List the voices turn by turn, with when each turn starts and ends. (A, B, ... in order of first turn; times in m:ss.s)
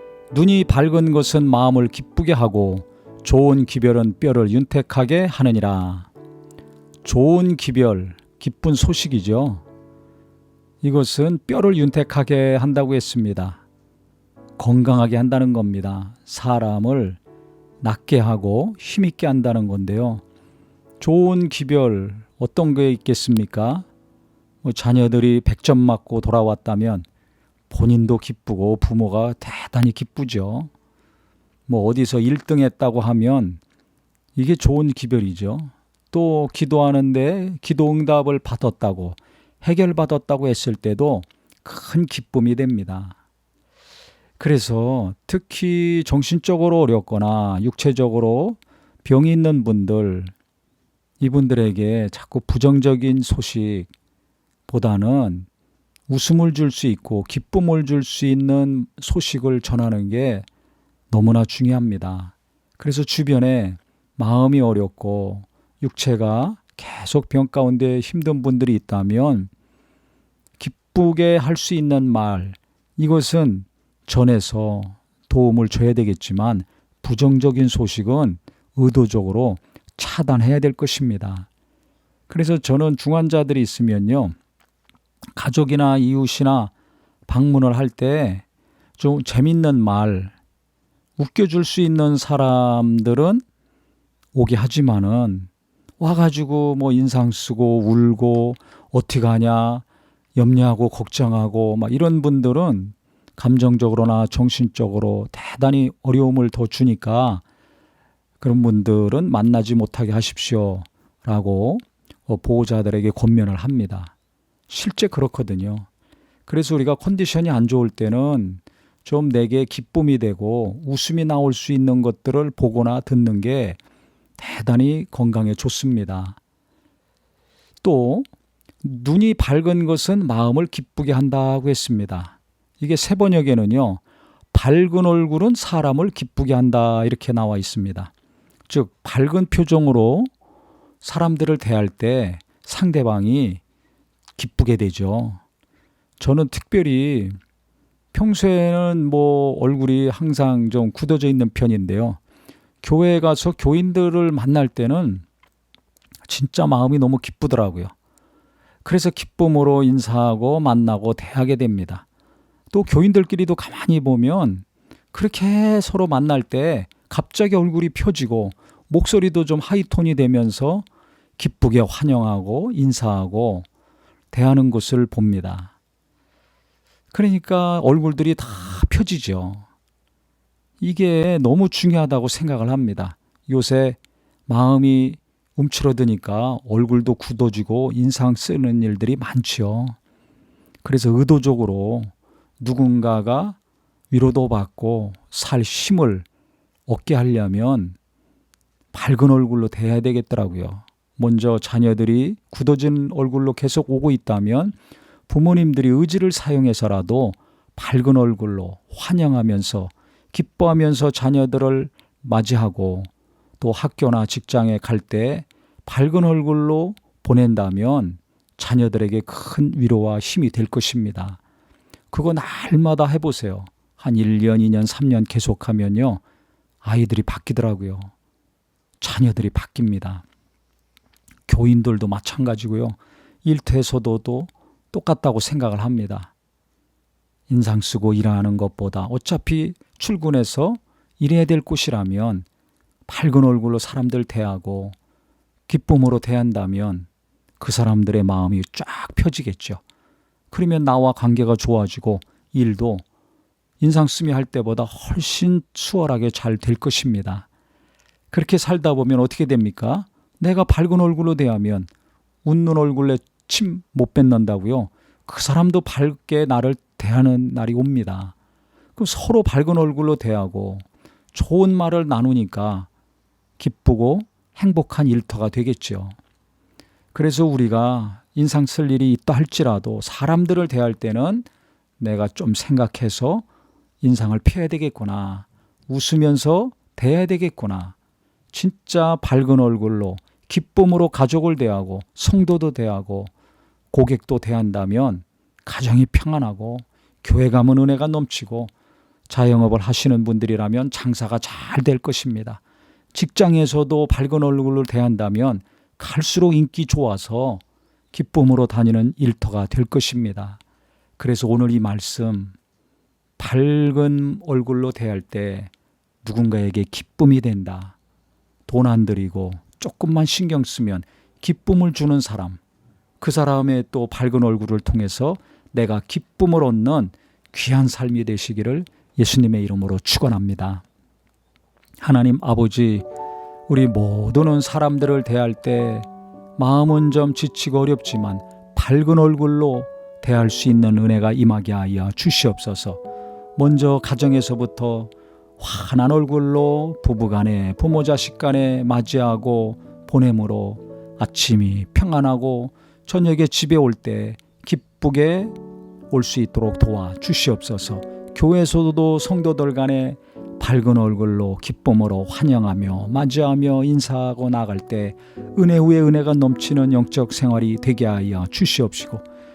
0:00.3-0:06.1 A
0:07.0-0:09.6 A
0:10.8-0:13.6 A
0:14.6-0:17.2 A
0:17.8-0:20.2 A
0:21.0-0:23.8 A
0:24.6-0:27.0 A
0:27.7-0:30.7 A
0:31.7-0:33.6 A
0:34.4-0:43.2 A
0:44.4-0:50.3 A
0:51.2-0:53.9 A
0:54.7-0:55.5 A
0:56.1-1:00.4 A
1:01.1-1:09.5 A
1:10.6-1:21.5 A
1:22.3-1:24.3 A
1:25.4-1:26.7 A
1:27.3-1:28.4 A
1:29.0-1:30.3 A
1:31.2-1:33.4 A
1:34.3-1:35.5 A
1:36.0-1:39.8 A
1:40.4-1:47.4 A
1:48.4-1:54.1 A
1:54.7-1:55.9 A
1:56.5-2:03.8 A
2:04.4-2:06.4 A
2:07.8-2:08.3 A
2:08.8-2:18.1 A
2:18.7-2:20.3 A
2:21.0-2:23.6 A
2:24.4-2:25.4 A
2:26.2-2:27.4 A
2:28.1-2:32.2 A
2:32.8-2:35.2 A
2:36.3-2:37.9 A
2:38.8-2:42.0 A
2:42.7-2:50.8 A
2:51.4-2:53.7 A
2:54.3-2:55.7 A
2:57.1-2:59.6 A
3:00.8-3:10.0 A
3:10.8-3:13.6 A
3:14.1-3:16.2 A
3:16.9-3:18.0 A
3:18.9-3:24.8 A
3:25.3-3:41.4 A
3:42.1-3:46.2 A
3:46.8-3:48.1 A
3:49.0-3:50.2 A
3:51.5-3:56.3 A
3:57.5-4:02.4 A
4:03.1-4:05.0 A
4:05.7-4:07.1 A
4:07.6-4:09.8 A
4:10.5-4:13.0 A
4:13.8-4:17.5 A
4:18.3-4:21.9 A
4:22.4-4:28.3 A
4:29.0-4:32.9 A
4:33.6-4:36.1 A
4:37.1-4:41.5 A
4:42.0-4:43.4 A
4:44.0-4:47.9 A
4:48.5-4:53.3 A
4:53.9-4:58.7 A
4:59.3-5:02.6 A
5:03.1-5:10.6 A
5:11.2-5:12.5 A
5:13.4-5:15.7 A
5:16.2-5:18.0 A
5:18.7-5:22.6 A
5:23.2-5:30.8 A
5:32.0-5:33.0 A
5:33.7-5:43.0 A
5:43.6-5:55.5 A
5:56.1-6:09.2 A